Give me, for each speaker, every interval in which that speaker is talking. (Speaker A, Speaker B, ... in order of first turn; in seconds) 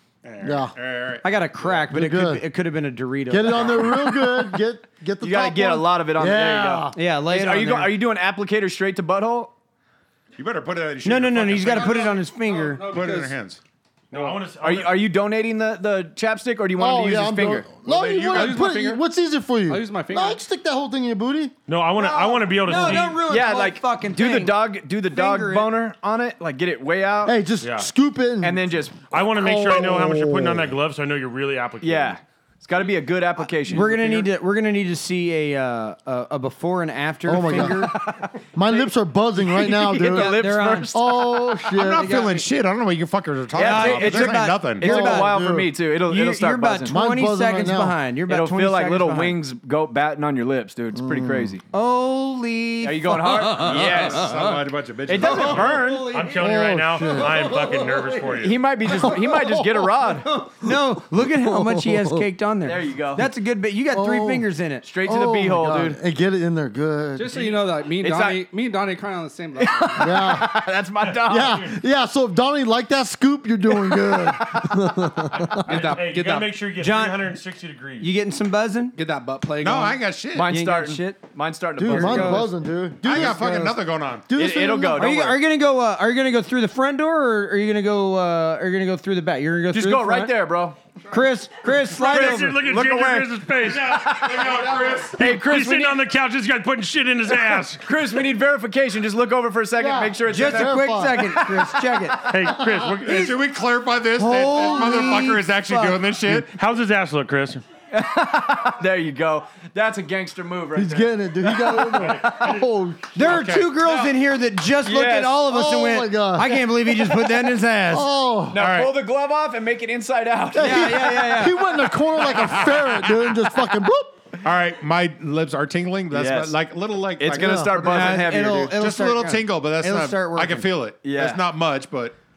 Speaker A: 0.2-1.8, 3.5-3.9, 10.4-12.2, 12.9-13.6, 17.8-18.6, 41.7-44.9, 53.6-55.8, 79.6-80.5, 83.0-84.3, 93.8-95.2, 103.0-106.5, 113.2-114.1, 118.6-119.0, 122.3-123.1, 124.4-132.2
Speaker B: 0.4-0.7, 1.9-2.4, 3.3-7.0, 16.8-21.5, 27.2-30.7, 37.2-37.9, 38.5-42.1, 44.8-45.7, 46.9-48.0, 50.9-51.6, 56.3-57.5, 58.9-59.9, 60.6-62.2, 63.9-64.5, 65.0-67.5, 70.0-70.5, 71.3-75.6, 81.8-85.1, 99.8-101.8, 102.4-103.0, 110.7-113.4, 115.5-116.7, 117.9-118.6, 120.5-124.2, 127.4-127.7
Speaker C: 1.2-3.9, 6.9-8.0, 11.0-12.9, 21.9-25.7, 33.6-38.0, 40.0-42.5, 43.5-45.4, 46.0-49.4, 51.7-54.4, 55.1-56.5, 57.1-58.3, 60.2-64.8, 76.8-77.3, 78.0-79.0, 80.5-81.2, 81.8-82.5, 85.0-90.3, 91.1-92.6, 100.3-102.3, 104.1-106.0, 113.2-118.1, 120.6-121.6, 127.8-130.7
Speaker D: 5.2-9.5, 14.6-17.7, 22.7-27.4, 28.4-29.0, 31.8-34.3, 37.5-41.3, 43.5-47.0, 48.3-51.6, 52.8-54.3, 55.1-56.1, 58.3-60.3, 62.6-63.3, 64.8-66.0, 68.0-68.5, 69.6-71.7, 80.3-82.5, 84.3-85.4, 89.7-90.8, 92.5-93.3, 95.1-96.0, 97.8-101.0, 107.9-112.0, 114.8-115.4, 118.5-121.7, 126.1-126.6, 127.2-128.8, 131.0-131.4
Speaker E: 11.6-13.4, 18.3-19.0, 19.7-20.4, 67.2-70.3, 75.7-76.6, 79.0-80.0
Speaker F: 14.1-15.0, 21.7-23.2, 27.6-27.9, 29.1-32.2, 56.0-58.6, 71.0-71.8, 75.3-78.1, 91.7-98.0, 102.3-103.4, 106.3-107.6, 111.8-112.7